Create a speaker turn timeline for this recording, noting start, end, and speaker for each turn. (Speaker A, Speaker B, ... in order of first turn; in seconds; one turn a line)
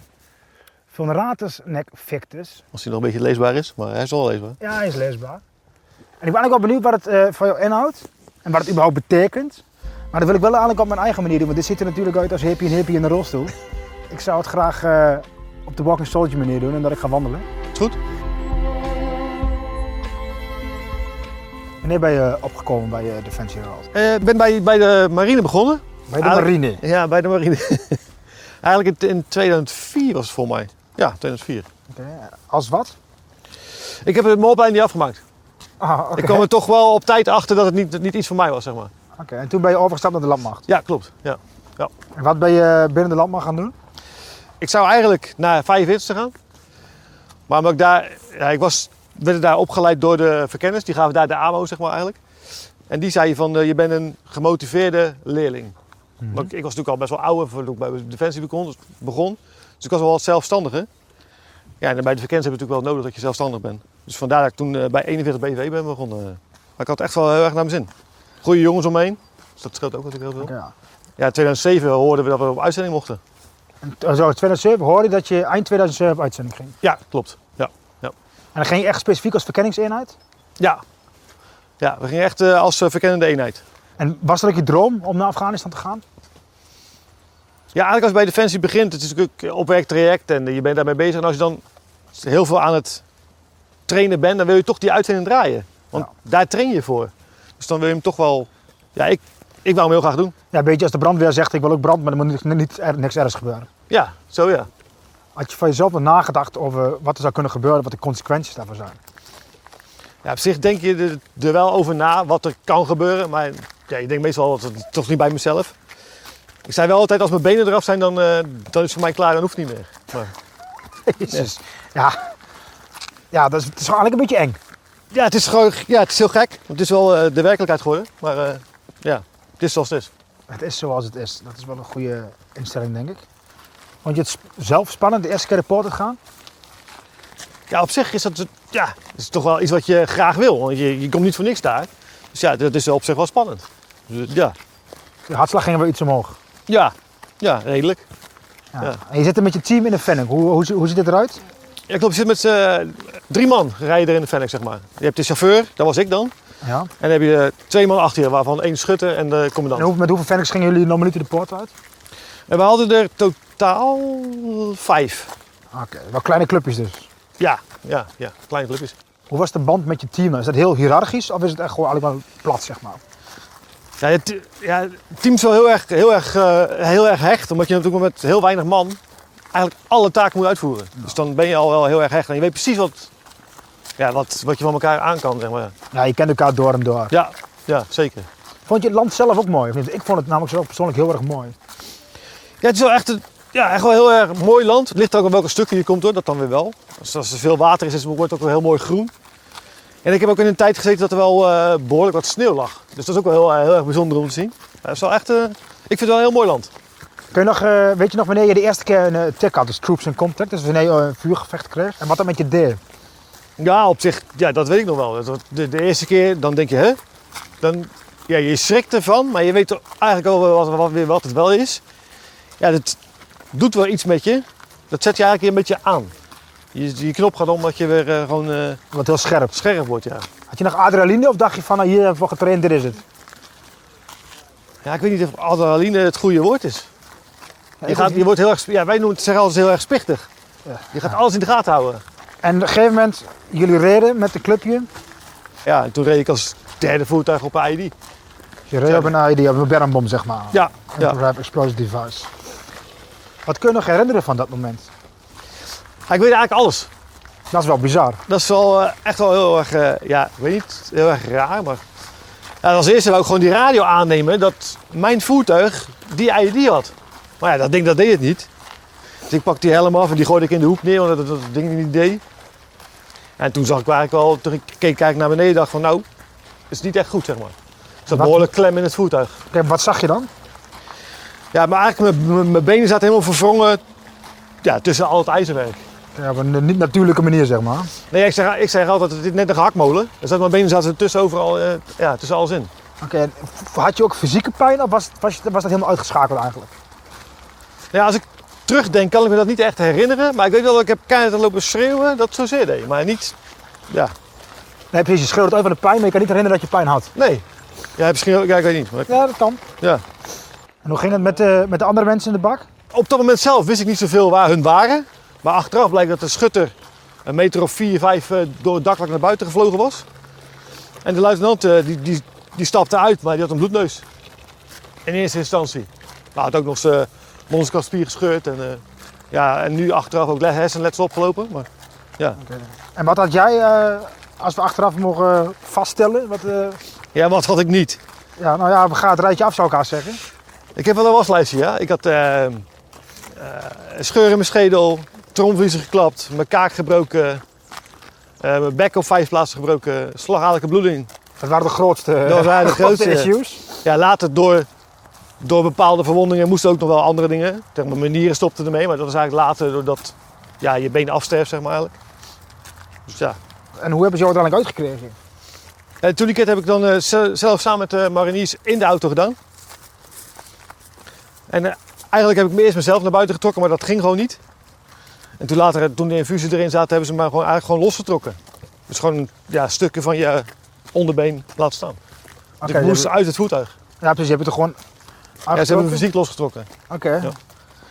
Speaker A: 0.9-2.6
Speaker B: 2.7-4.6
Speaker A: 4.6-5.4
Speaker A: 6.2-13.5
Speaker A: 14.1-17.4
Speaker A: 21.8-23.9
Speaker B: 23.9-28.0
Speaker A: 26.1-26.8
Speaker B: 28.6-31.6
Speaker A: 31.9-33.0
Speaker B: 34.0-35.2
Speaker A: 35.8-36.5
Speaker B: 36.1-38.9
Speaker A: 39.2-40.6
Speaker B: 40.7-41.9
Speaker A: 42.1-43.7
Speaker B: 44.6-46.3
Speaker B: 47.5-52.2
Speaker B: 52.9-55.7
Speaker A: 56.2-56.5
Speaker B: 56.3-60.9
Speaker B: 61.8-67.9
Speaker B: 68.4-70.5
Speaker A: 70.4-70.7
Speaker B: 71.2-73.2
Speaker A: 73.8-76.7
Speaker B: 76.8-78.1
Speaker A: 78.5-80.2
Speaker B: 81.8-83.6
Speaker A: 84.0-86.0
Speaker B: 87.7-91.6
Speaker B: 92.1-93.0
Speaker B: 93.9-100.3
Speaker A: 100.5-103.7
Speaker B: 103.9-104.7
Speaker A: 105.3-109.0
Speaker B: 110.2-115.7
Speaker B: 116.7-120.3
Speaker A: 121.0-122.3
Speaker A: 123.3-124.6
Speaker B: 125.1-130.1
Speaker A: 130.5-133.2
Speaker A: 134.0-136.2
Speaker B: 137.7-144.6
Speaker A: 145.3-146.4
Speaker B: 146.7-148.0
Speaker A: 148.7-151.4
Speaker B: 151.9-156.3
Speaker A: 156.6-156.9
Speaker B: 157.0-159.9
Speaker A: 159.7-161.7
Speaker B: 162.5-165.3
Speaker A: 165.7-167.1
Speaker B: 167.4-168.9
Speaker A: 169.3-173.0
Speaker B: 174.0-179.0
Speaker B: 179.5-183.1
Speaker B: 184.0-185.7
Speaker A: 185.9-187.1
Speaker B: 187.1-188.3
Speaker A: 188.7-191.5
Speaker B: 192.6-199.1
Speaker B: 200.0-206.7
Speaker A: 207.3-212.8
Speaker B: 213.6-217.0
Speaker B: 217.6-221.8
Speaker B: 222.6-223.0
Speaker B: 223.5-226.1
Speaker B: 226.7-228.8
Speaker A: 228.9-229.6
Speaker B: 229.5-230.2
Speaker A: 230.5-233.0
Speaker B: 234.8-236.9
Speaker A: 237.8-238.2
Speaker B: 237.8-240.3
Speaker A: 240.7-241.1
Speaker B: 240.9-242.0
Speaker A: 242.4-244.9
Speaker B: 245.6-247.9
Speaker A: 248.7-252.3
Speaker B: 248.8-249.1
Speaker B: 250.5-251.2
Speaker A: 253.4-254.9
Speaker B: 256.1-256.9
Speaker A: 257.5-258.2
Speaker B: 258.3-261.8
Speaker B: 262.6-268.5
Speaker B: 269.3-272.2
Speaker B: 273.4-276.0
Speaker B: 276.7-277.5
Speaker B: 278.1-279.4
Speaker A: 278.1-278.5
Speaker A: 279.5-280.3
Speaker B: 281.5-283.8
Speaker B: 284.6-285.8
Speaker A: 286.1-287.9
Speaker B: 288.1-292.7
Speaker A: 293.0-296.7
Speaker B: 297.9-303.3
Speaker A: 304.9-307.1
Speaker B: 307.1-307.4
Speaker B: 308.0-309.1
Speaker A: 309.1-309.6
Speaker A: 310.8-312.7
Speaker B: 312.9-316.7
Speaker B: 317.2-320.1
Speaker B: 321.0-324.0
Speaker B: 325.0-331.7
Speaker A: 332.4-336.8
Speaker B: 337.1-338.0
Speaker A: 338.4-340.2
Speaker B: 340.7-342.6
Speaker B: 343.3-347.4
Speaker B: 348.4-351.1
Speaker A: 351.4-353.6
Speaker B: 352.2-354.7
Speaker B: 355.4-361.9
Speaker B: 363.1-363.4
Speaker A: 363.8-365.1
Speaker B: 366.0-369.4
Speaker B: 371.5-374.4
Speaker B: 375.4-378.4
Speaker B: 378.9-382.0
Speaker A: 382.6-383.1
Speaker B: 382.6-383.7
Speaker A: 384.0-384.8
Speaker A: 385.4-386.1
Speaker B: 385.5-386.7
Speaker A: 386.9-387.3